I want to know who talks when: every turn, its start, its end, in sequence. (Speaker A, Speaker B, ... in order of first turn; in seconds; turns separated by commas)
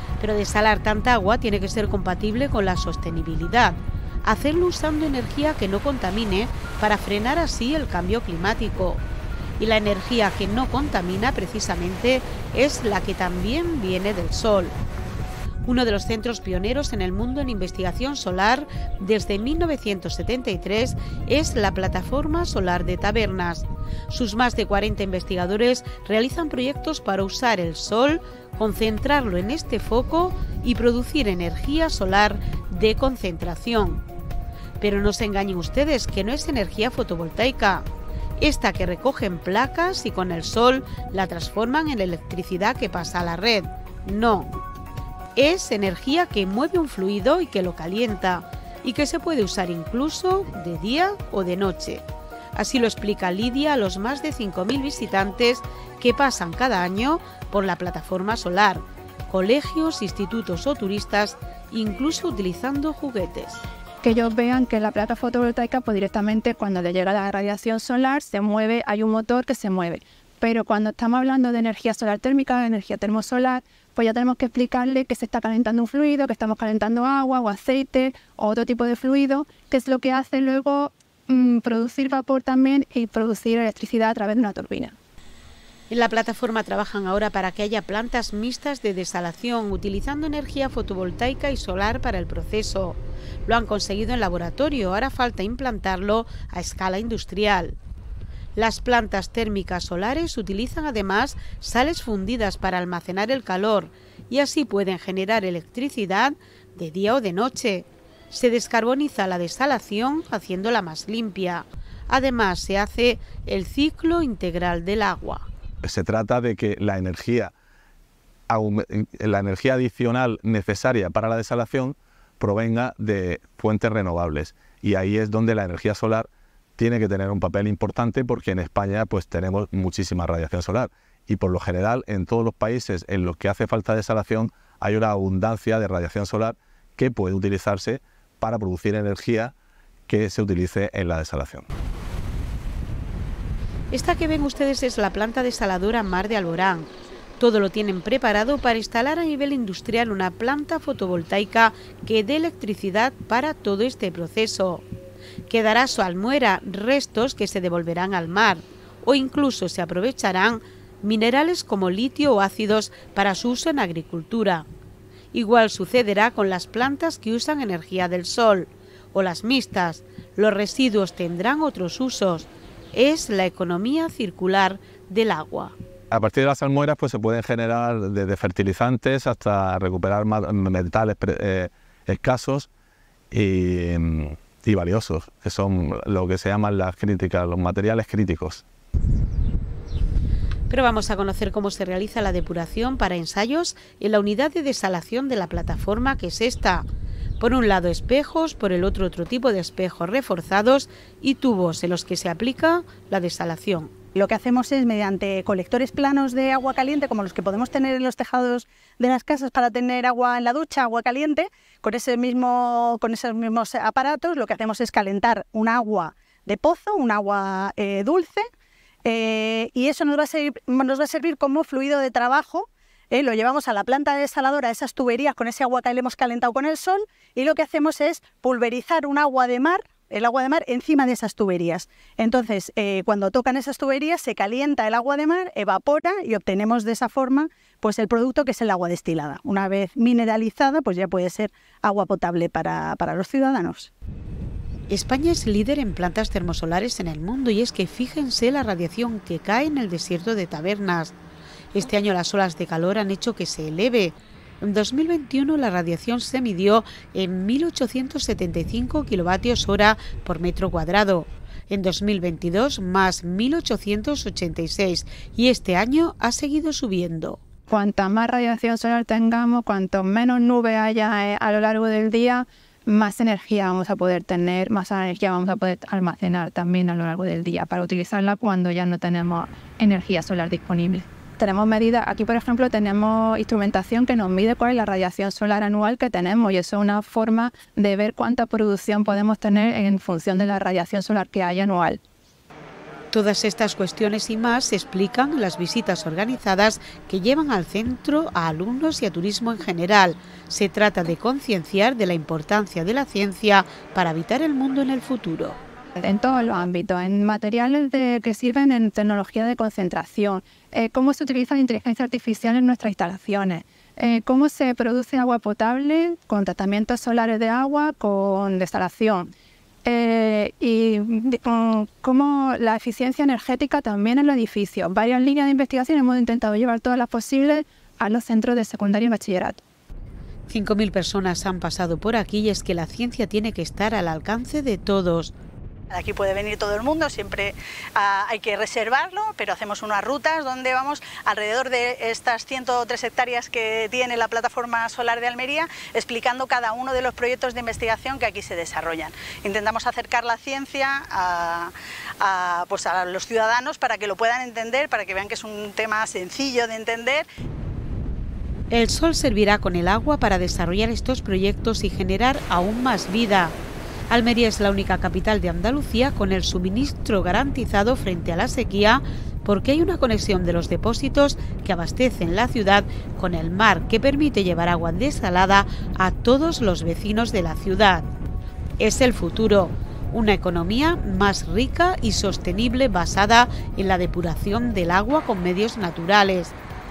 Speaker A: 0.2-9.0, Speaker A: 9.6-14.8, Speaker A: 15.6-34.0, Speaker A: 34.8-37.9, Speaker A: 38.4-44.5, Speaker A: 45.4-63.6, Speaker B: 64.0-85.0, Speaker A: 85.9-97.8, Speaker A: 98.5-115.5, Speaker C: 115.8-117.5, Speaker C: 118.5-139.5, Speaker C: 140.1-141.7, Speaker A: 143.9-154.8, Speaker A: 155.5-164.7, Speaker A: 165.3-175.7, Speaker C: 176.1-182.7, Speaker C: 183.3-188.6, Speaker A: 190.7-196.9, Speaker A: 197.4-203.9, Speaker D: 204.1-218.5, Speaker D: 219.0-243.9, Speaker A: 244.9-251.1, Speaker A: 251.7-267.4, Speaker B: 267.7-292.0, Speaker A: 293.1-305.6, Speaker B: 306.0-319.3, Speaker B: 319.8-329.6, Speaker A: 330.5-335.3, Speaker D: 335.9-357.2, Speaker A: 358.7-363.6, Speaker A: 364.1-378.1, Speaker A: 378.8-386.6